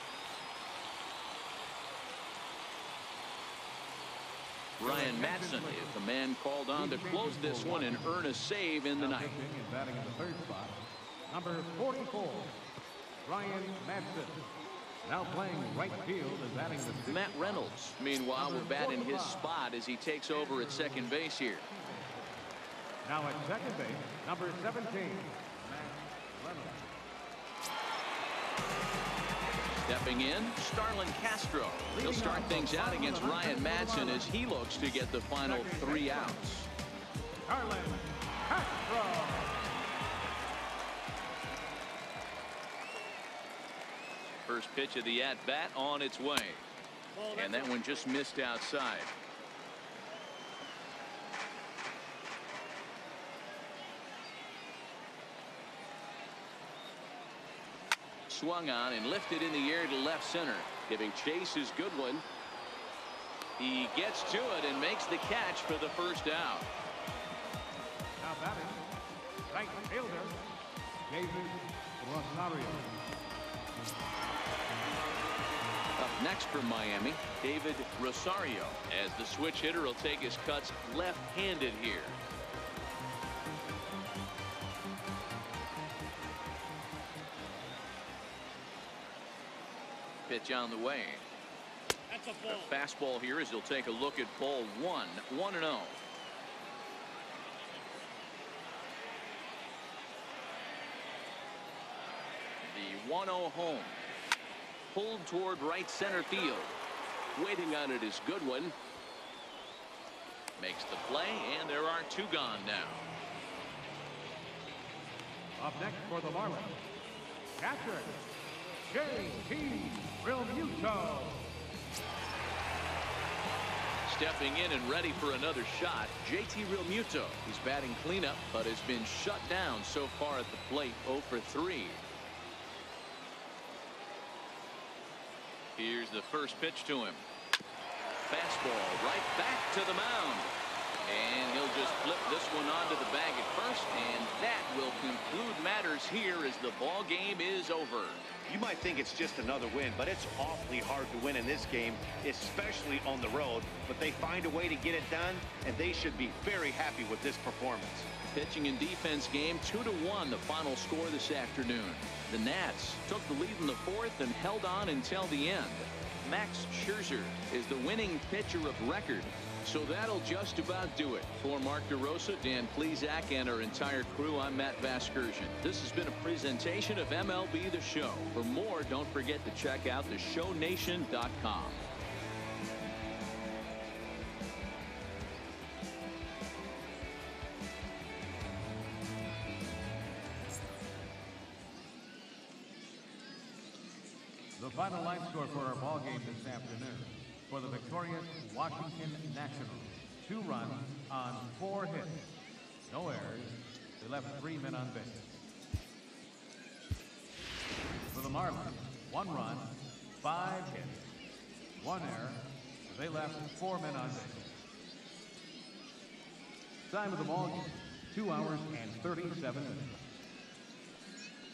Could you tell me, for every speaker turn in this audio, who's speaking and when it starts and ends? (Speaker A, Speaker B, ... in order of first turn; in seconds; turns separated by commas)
Speaker A: 4.8-9.4, Speaker B: 4.8-6.0, Speaker B: 6.8-8.2, Speaker B: 9.0-12.6, Speaker B: 13.2-14.5, Speaker B: 15.1-17.7, Speaker A: 17.1-21.7, Speaker B: 18.4-19.5, Speaker B: 20.4-21.0, Speaker B: 23.1-26.9, Speaker A: 29.8-36.7, Speaker B: 31.9-34.3, Speaker B: 35.4-36.4, Speaker B: 37.5-39.6, Speaker A: 44.5-46.6, Speaker A: 47.3-49.1, Speaker A: 58.3-62.2, Speaker A: 63.6-66.7, Speaker B: 68.2-68.8, Speaker B: 69.5-70.4, Speaker B: 71.1-73.0, Speaker A: 76.0-82.2, Speaker A: 90.3-91.2, Speaker A: 92.4-96.0, Speaker A: 102.7-104.0, Speaker A: 104.9-106.7, Speaker A: 107.3-108.8, Speaker A: 110.6-113.1, Speaker B: 115.6-116.8, Speaker B: 117.6-118.2, Speaker B: 118.9-121.5, Speaker A: 124.1-132.0, Speaker A: 135.8-137.2, Speaker A: 138.3-140.5, Speaker A: 141.1-148.2, Speaker C: 148.5-158.1, Speaker A: 158.2-181.8, Speaker B: 194.6-202.3, Speaker B: 202.9-205.3, Speaker B: 208.1-211.1, Speaker B: 211.8-214.5, Speaker B: 216.9-220.0